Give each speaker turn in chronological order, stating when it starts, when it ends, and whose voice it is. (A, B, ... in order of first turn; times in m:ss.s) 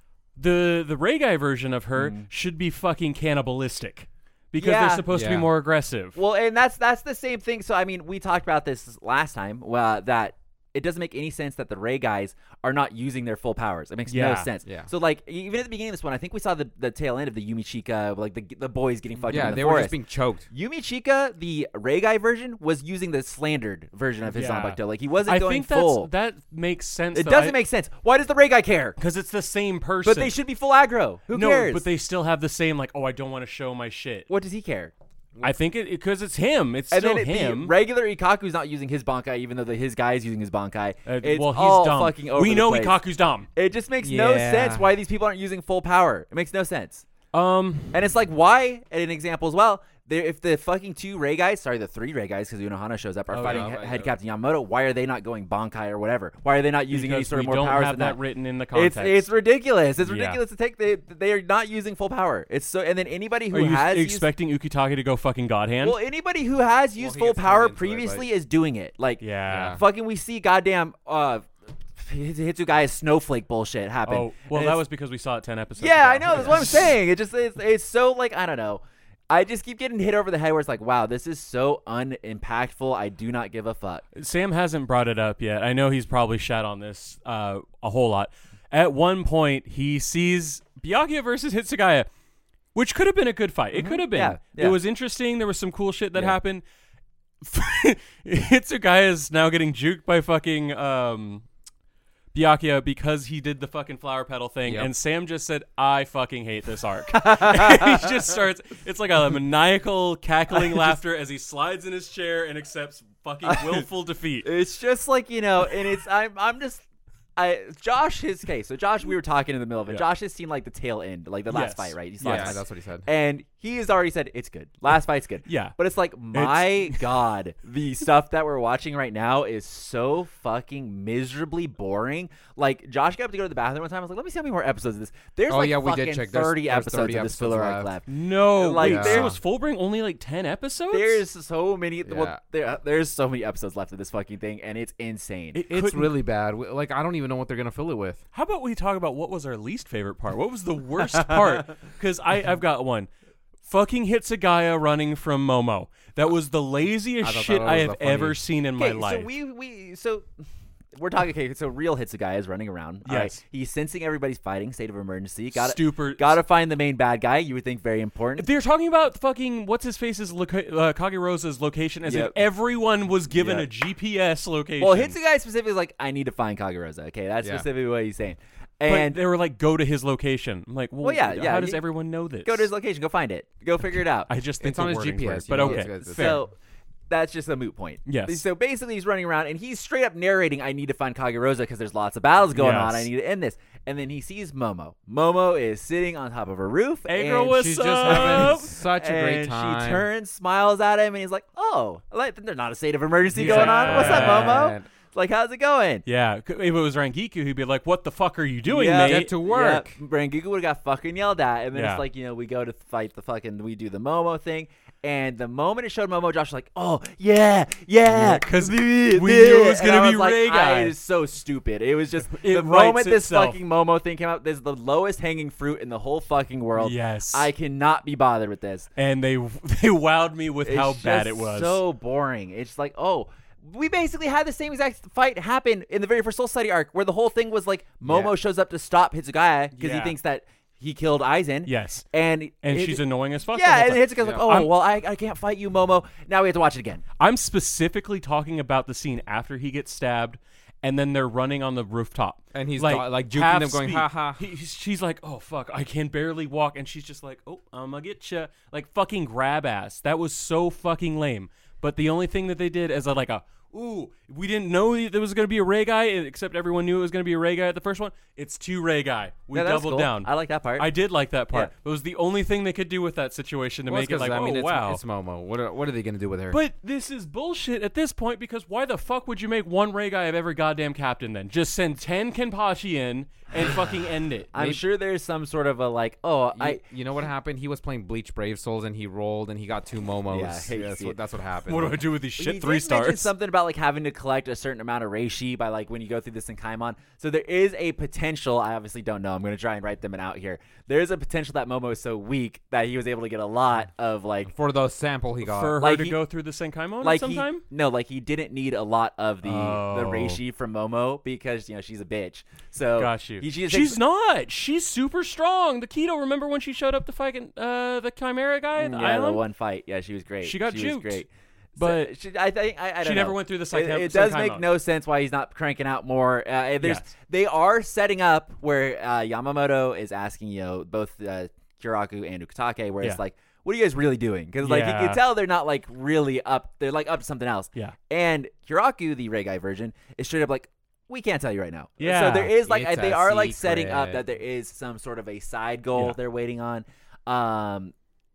0:00.4-0:06.2 A
0:02.0-0:02.3 B
0:04.6-0:05.0 B
0:05.1-0:05.5 C
0:06.2-0:20.0 B
0:14.1-0:14.5 A
0:19.2-0:19.6 A
0:19.3-0:20.5 C
0:20.5-0:26.1 B
0:24.3-0:27.6 A
0:27.1-0:29.0 B
0:29.0-0:30.4 A
0:30.0-0:31.9 B
0:31.3-0:34.3 A
0:34.3-0:34.9 B
0:35.4-0:37.7 A
0:36.9-0:43.0 B
0:41.1-0:43.5 A
0:43.6-0:47.1 B
0:44.0-0:44.9 C
0:47.3-0:48.0 A
0:47.9-0:58.2 B
0:53.3-0:53.7 A
0:53.4-0:54.1 C
0:56.9-0:59.3 A
0:58.7-1:04.3 B
1:00.0-1:00.4 A
1:03.5-1:06.0 A
1:05.8-1:14.8 B
1:07.0-1:08.3 C
1:09.2-1:09.8 A
1:09.5-1:09.8 C
1:14.1-1:16.8 A
1:15.8-1:24.0 B
1:24.2-1:32.1 A
1:32.8-1:36.6 A
1:33.7-1:34.8 B
1:37.4-1:41.5 A
1:42.3-1:54.5 A
1:44.7-1:44.9 C
1:47.1-1:48.1 B
1:50.6-1:51.0 B
1:53.5-1:53.8 B
1:54.4-1:56.8 B
1:57.4-2:19.4 B
2:01.5-2:02.6 A
2:02.2-2:03.1 C
2:05.5-2:05.8 A
2:06.3-2:07.0 A
2:15.5-2:17.9 C
2:18.1-2:21.2 A
2:18.8-2:19.4 C
2:20.9-2:25.6 B
2:22.0-2:22.4 C
2:25.5-2:26.2 A
2:25.7-2:28.2 C
2:28.3-2:33.1 A
2:33.6-2:39.3 A
2:37.2-2:38.4 C
2:38.8-2:40.3 B
2:41.0-2:48.5 B
2:43.1-2:43.4 A
2:45.5-2:46.4 A
2:48.4-2:55.2 A
2:52.0-2:52.4 B
2:53.3-2:53.7 B
2:54.8-2:59.2 B
2:57.4-2:57.7 C
2:58.9-3:02.7 A
3:01.0-3:01.8 B
3:02.4-3:04.3 B
3:04.3-3:06.4 A
3:04.6-3:06.4 C
3:05.5-3:06.5 B
3:07.1-3:26.0 B
3:08.1-3:08.4 A
3:12.5-3:13.1 A
3:17.1-3:18.7 A
3:17.5-3:20.1 C
3:23.3-3:24.9 C
3:23.4-3:24.7 A
3:26.1-3:29.3 A
3:28.7-3:48.9 B
3:29.0-3:30.0 C
3:31.7-3:32.0 A
3:38.0-3:41.0 A
3:42.3-3:43.6 A
3:46.8-3:47.5 A
3:49.0-3:51.8 A
3:50.6-4:07.0 B
3:59.8-4:00.2 A
4:01.7-4:02.1 A
4:02.6-4:04.7 A
4:07.2-4:35.0 A
4:12.5-4:14.5 C
4:29.5-4:30.9 B
4:33.9-4:36.6 C
4:36.5-4:44.5 A
4:44.5-4:46.8 B
4:44.5-4:44.8 C
4:46.5-4:52.0 C
4:50.3-4:51.2 B
4:51.7-4:53.3 A
4:52.4-5:04.5 B
5:04.5-5:05.8 C
5:05.4-5:07.6 A
5:05.8-5:06.2 B
5:07.0-5:14.0 B
5:09.4-5:10.4 A
5:13.0-5:19.4 A
5:18.8-5:47.9 B
5:20.4-5:21.2 A
5:21.8-5:22.1 A
5:23.0-5:24.7 A
5:26.8-5:27.1 A
5:34.6-5:35.2 A
5:42.0-5:42.5 A
5:42.5-5:44.2 C